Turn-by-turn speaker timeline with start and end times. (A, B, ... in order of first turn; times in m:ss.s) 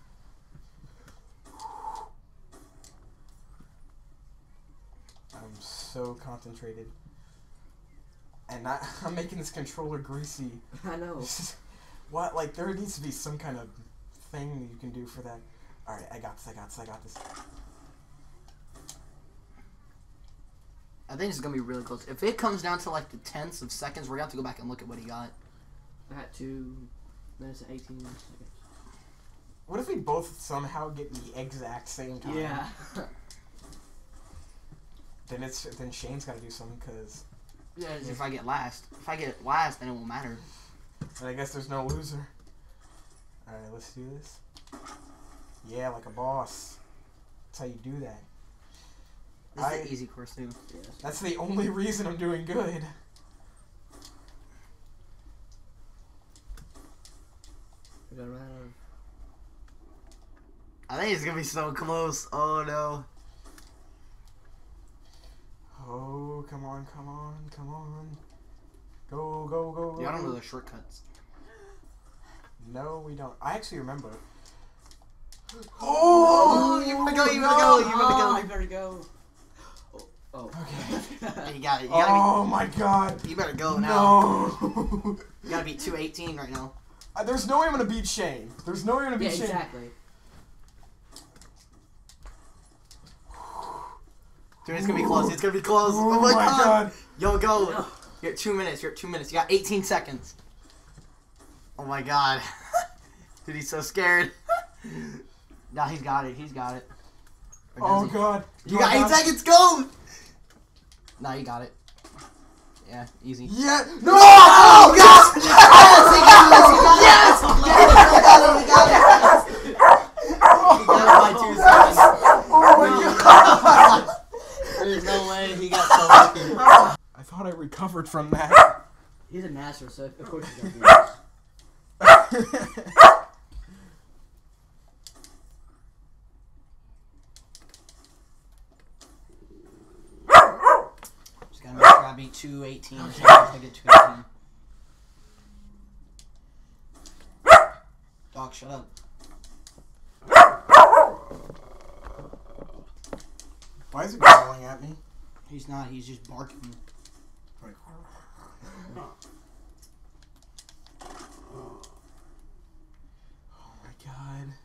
0:05.3-0:06.9 A
0:08.5-0:10.6 A
0:10.7-0:11.3 B
0:11.2-0:11.6 A
0:12.1-0:17.2 A
0:21.1-0:25.3 C
0:26.1-0:28.6 B
0:29.6-0:32.7 A
0:32.2-0:33.1 B
0:35.2-0:37.2 A
0:37.8-0:38.2 B
0:37.9-0:40.4 C
0:41.2-0:42.3 A
0:43.4-0:44.4 A
0:45.6-0:46.8 A
0:47.5-0:48.2 A
0:49.5-0:50.6 C
0:49.6-0:49.9 A
0:50.7-0:51.0 B
0:51.0-0:52.9 A
0:58.1-0:58.7 B
1:00.9-1:03.0 C
1:05.8-1:08.2 A
1:09.1-1:10.4 A
1:10.0-1:11.0 C
1:12.6-1:14.2 A
1:15.7-1:17.0 A
1:16.0-1:18.5 C
1:16.0-1:19.1 B
1:19.9-1:21.5 B
1:20.5-1:21.2 A
1:21.4-1:22.5 C
1:21.9-1:25.5 A
1:23.2-1:24.4 C
1:25.4-1:26.7 C
1:27.1-1:29.6 A
1:29.2-1:29.9 B
1:34.6-1:40.3 C
1:34.7-1:37.0 A
1:37.5-1:38.0 B
1:41.8-1:42.8 C
1:43.4-1:46.9 C
1:47.7-1:49.9 C
1:47.8-1:49.3 A
1:51.2-1:51.7 C
1:52.8-1:53.6 C
1:53.4-1:59.4 A
1:54.2-1:59.5 C
1:57.0-1:59.8 B
2:00.4-2:04.1 A
2:00.5-2:04.1 C
2:01.0-2:03.9 B
2:04.7-2:06.7 C
2:07.1-2:08.8 A
2:09.3-2:11.2 B
2:12.0-2:12.9 A
2:21.5-2:24.2 C
2:23.0-2:23.5 A
2:28.3-2:28.9 C
2:33.9-2:35.0 A
2:35.5-2:36.8 C
2:37.6-2:38.9 A
2:43.5-2:44.6 A